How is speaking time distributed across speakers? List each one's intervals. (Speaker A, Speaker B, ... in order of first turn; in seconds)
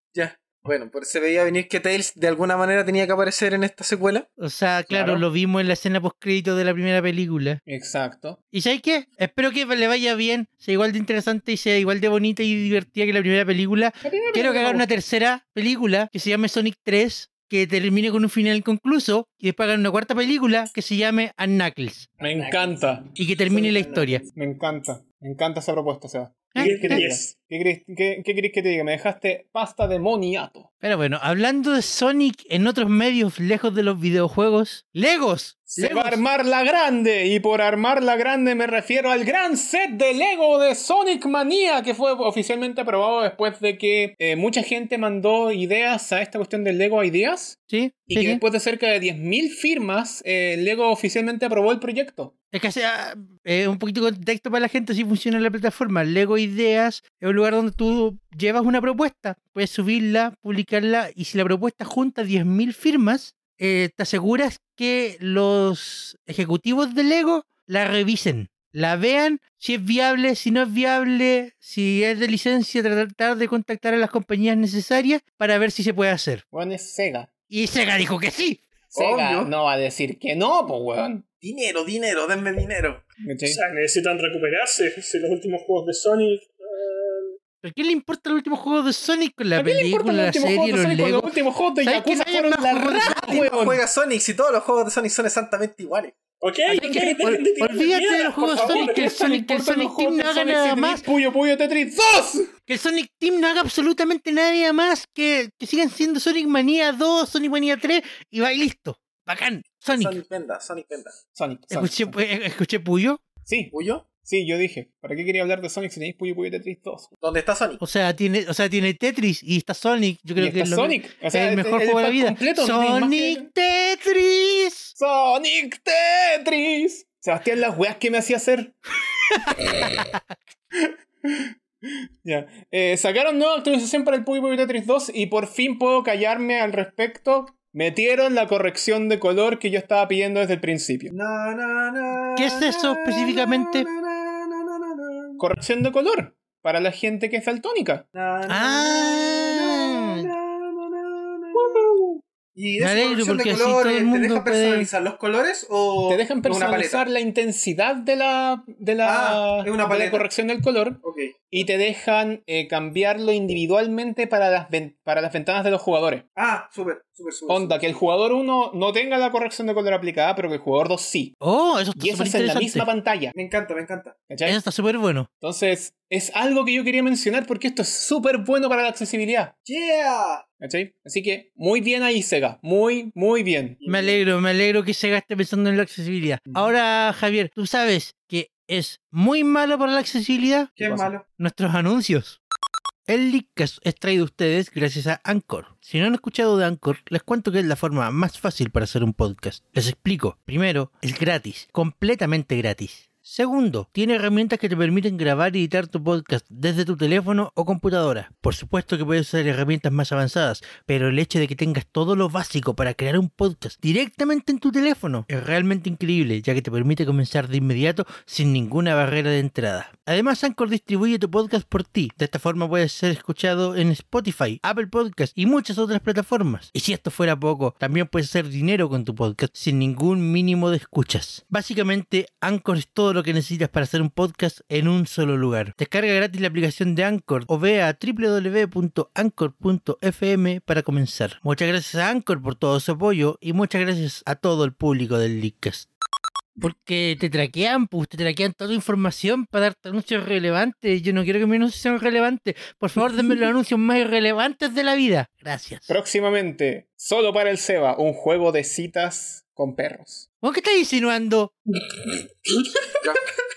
Speaker A: 0.1-4.3, 22.2-22.8, 23.5-24.3, 78.9-79.5, 81.4-83.0, 93.0-96.1, 109.9-111.2, 113.7-114.1, 117.2-117.8, 141.1-145.4, 148.1-152.0, 152.6-157.1, 159.0-160.3, 161.0-161.6, 166.4-168.0, 173.3-174.2, 179.7-180.4, 183.8-184.2, 190.8-191.2
Speaker B: 4.4-7.6, 8.5-22.1, 23.2-24.2, 26.5-27.1, 30.8-36.2, 47.7-48.4, 52.5-76.4, 77.5-78.6, 87.6-93.4, 96.7-101.0, 102.7-110.2, 111.7-113.2, 117.8-124.9, 129.4-130.2, 142.4-143.9, 148.5-150.3, 152.8-154.9, 171.4-172.9, 174.4-175.3, 183.8-190.8, 191.3-192.4, 193.1-245.9, 246.6-255.9, 260.4-261.6
Speaker C: 4.9-5.2, 7.7-8.4, 14.0-15.0, 22.2-23.1, 24.4-30.7, 35.7-47.6, 48.1-52.3, 76.5-77.3, 78.9-81.2, 83.2-83.6, 89.6-93.8, 98.6-102.5, 111.3-112.2, 113.5-117.1, 120.4-123.5, 125.0-128.8, 129.4-129.7, 130.8-141.1, 145.4-148.1, 156.1-161.0, 161.5-166.2, 167.5-171.4, 172.0-173.3, 174.3-174.6, 175.4-179.5, 180.6-183.8, 255.9-260.3
Speaker D: 26.6-27.3, 83.5-87.4, 96.4-99.1, 261.9-262.9